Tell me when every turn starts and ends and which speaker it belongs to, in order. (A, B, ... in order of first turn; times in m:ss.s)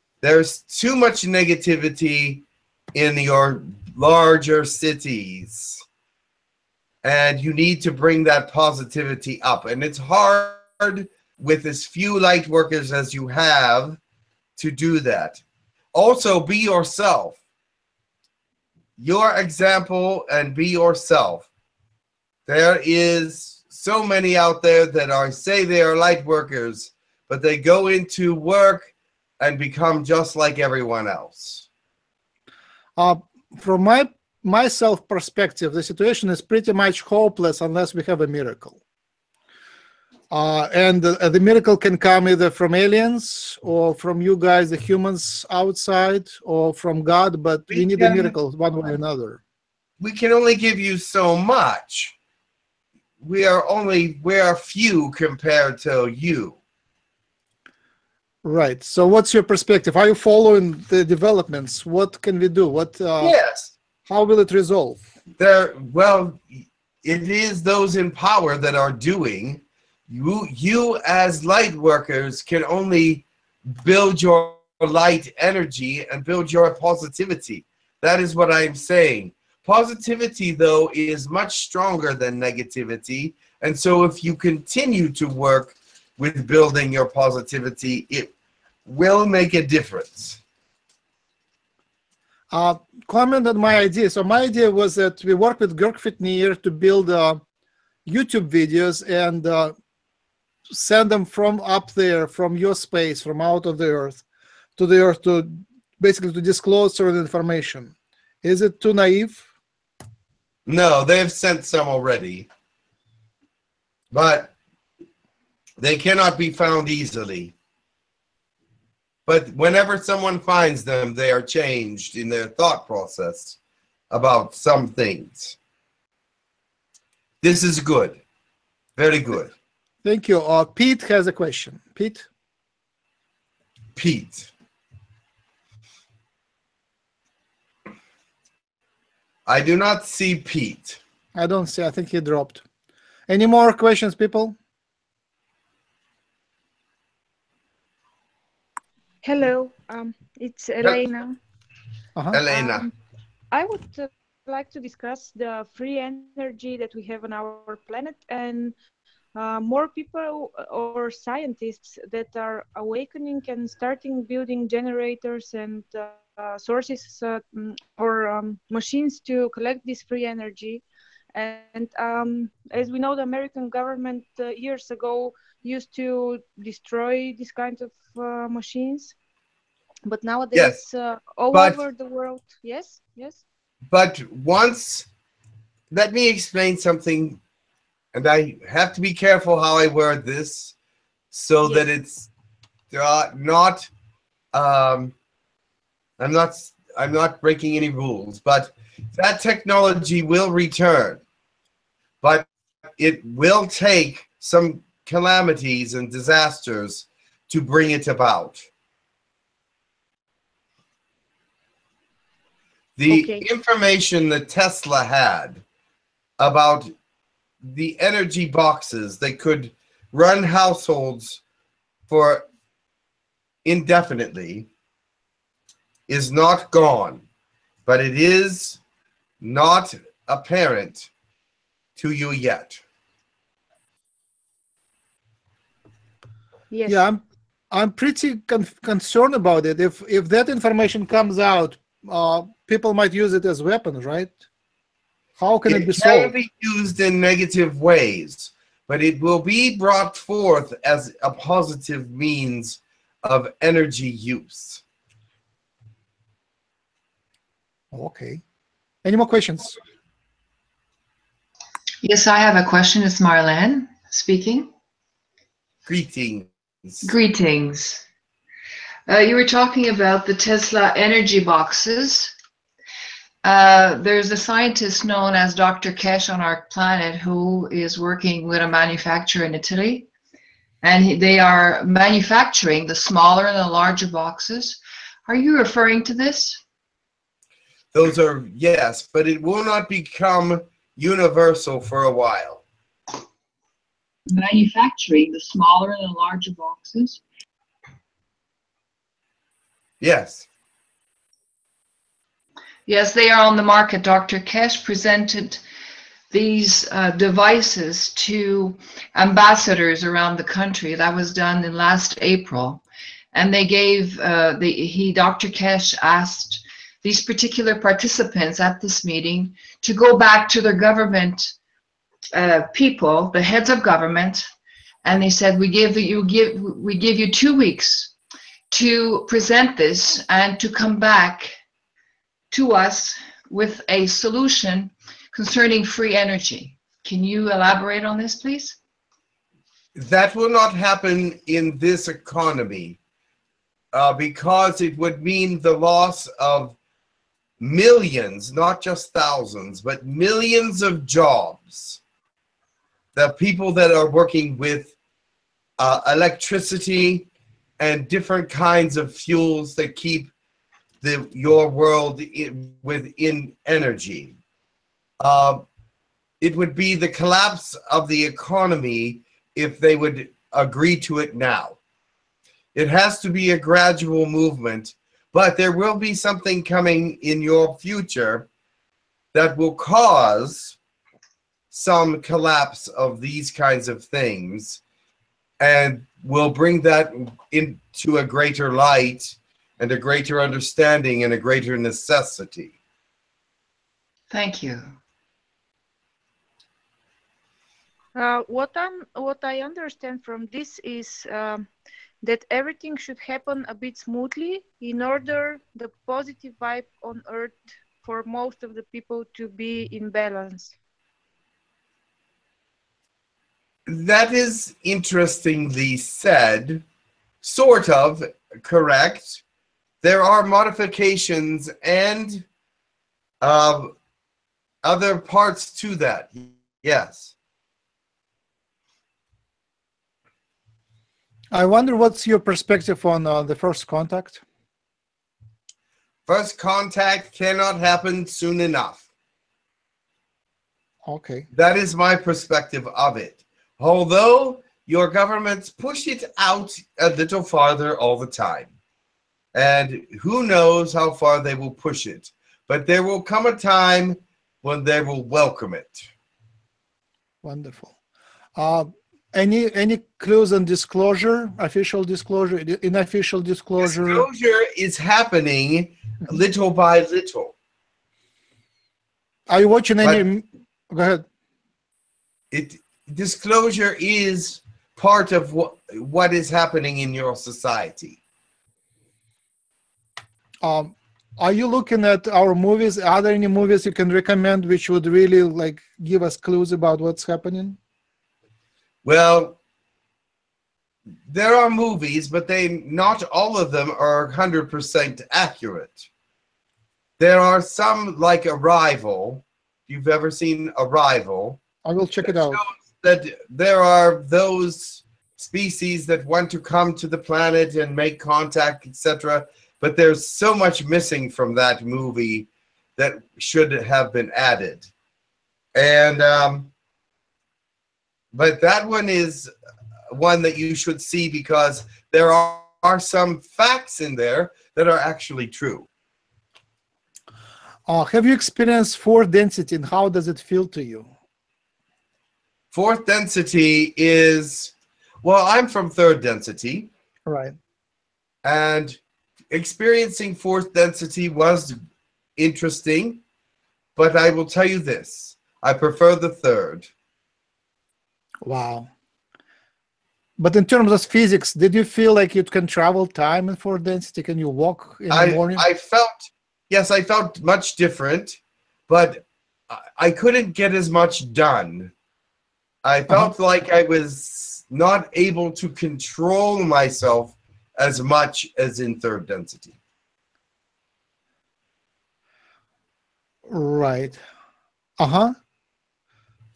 0:00.2-0:02.4 A
0:03.0-0:05.8 A
0:07.0-0:14.0 A
0:14.6-0:15.4 A
0:15.9-0:17.4 A
0:19.0-0:21.5 A
0:22.5-0:31.7 A
0:33.0-0:38.8 B
0:40.3-0:49.4 B
0:47.7-0:48.4 A
0:50.0-0:52.2 A
0:53.2-0:56.6 A
0:58.4-1:03.4 B
1:03.2-1:03.8 A
1:04.1-1:05.0 B
1:05.4-1:28.3 A
1:28.9-1:30.4 A
1:32.5-1:37.4 B
1:38.1-1:39.8 B
1:40.7-1:44.2 B
1:44.8-1:49.5 B
1:50.7-1:52.5 A
1:54.1-1:54.5 A
1:55.8-1:57.5 A
1:59.3-2:03.6 A
2:04.1-2:05.6 A
2:07.4-2:08.2 A
2:09.0-2:09.5 A
2:10.0-2:12.3 B
2:14.0-2:14.5 A
2:19.5-2:21.0 A
2:21.4-2:22.6 B
2:23.3-2:24.6 B
2:29.2-2:31.4 C
2:32.3-2:32.9 A
2:32.5-2:32.9 C
2:33.5-2:38.7 C
2:39.4-2:50.8 C
2:51.4-2:59.1 C
3:00.1-3:03.4 C
3:00.5-3:00.8 A
3:01.5-3:01.8 A
3:03.9-3:05.1 A
3:05.9-3:07.4 A
3:08.1-3:10.7 A
3:11.3-3:12.3 A
3:12.9-3:13.9 A
3:14.5-3:15.1 A
3:16.2-3:21.2 A
3:23.0-3:28.7 A
3:33.0-3:35.6 A
3:33.1-3:33.5 C
3:36.4-3:36.9 A
3:37.6-3:41.4 A
3:42.1-3:42.4 A
3:43.6-3:44.7 A
3:46.1-3:47.2 A
3:47.9-3:48.8 A
3:49.4-3:51.1 A
3:52.0-3:52.8 A
3:56.7-3:57.0 C
3:56.9-4:04.4 B
4:05.4-4:06.3 B
4:05.7-4:14.8 A
4:17.9-4:18.4 B
4:19.0-4:19.8 B
4:22.0-4:24.7 D
4:25.9-4:27.1 A
4:27.0-4:28.0 D
4:29.1-4:32.3 D
4:33.4-4:40.1 D
4:40.8-4:46.6 D
4:47.9-4:52.6 A
4:54.3-4:57.2 D
5:00.0-5:00.5 A
5:02.9-5:05.6 D
5:06.3-5:21.5 D
5:22.3-5:24.5 D
5:25.0-5:28.1 D
5:28.7-5:31.5 D
5:32.5-5:38.8 D
5:40.0-5:43.0 A
5:43.9-5:46.8 A
5:47.6-5:52.0 A
5:53.2-5:54.9 A
5:55.8-5:57.3 A
5:57.8-6:00.3 A
6:01.0-6:04.4 A
6:05.2-6:05.6 A
6:06.4-6:11.8 A
6:12.8-6:18.5 A
6:19.3-6:20.8 A
6:21.7-6:24.8 A
6:25.6-6:32.8 A
6:34.3-6:34.9 D
6:38.2-6:41.7 C
6:42.2-6:50.8 C
6:53.9-6:56.8 A
6:57.4-6:59.4 A
7:00.0-7:02.4 A
7:03.4-7:03.9 A
7:04.8-7:07.3 A
7:11.5-7:14.4 B
7:16.3-7:19.0 A
7:21.1-7:21.5 B
7:21.5-7:28.7 A
7:29.5-7:36.1 A
7:37.4-7:38.0 B
7:38.6-7:44.3 B
7:43.8-7:47.5 A
7:49.5-7:51.2 B
7:52.5-7:58.2 A
8:00.6-8:07.8 B
8:09.0-8:09.6 A
8:11.3-8:16.1 A
8:17.2-8:21.6 A
8:21.8-8:22.6 B
8:22.2-8:34.9 A
8:35.8-8:36.7 A
8:38.3-8:39.5 A
8:40.1-8:45.9 A
8:47.9-8:51.1 B
8:52.7-8:56.9 A
8:57.3-8:57.6 B
8:58.4-8:59.0 A
8:59.5-9:01.8 A
9:02.4-9:03.2 A
9:04.0-9:06.9 A
9:08.4-9:08.9 B
9:10.4-9:15.6 B
9:15.1-9:21.9 A
9:22.8-9:29.8 A
9:33.5-9:34.2 B
9:35.0-9:35.3 B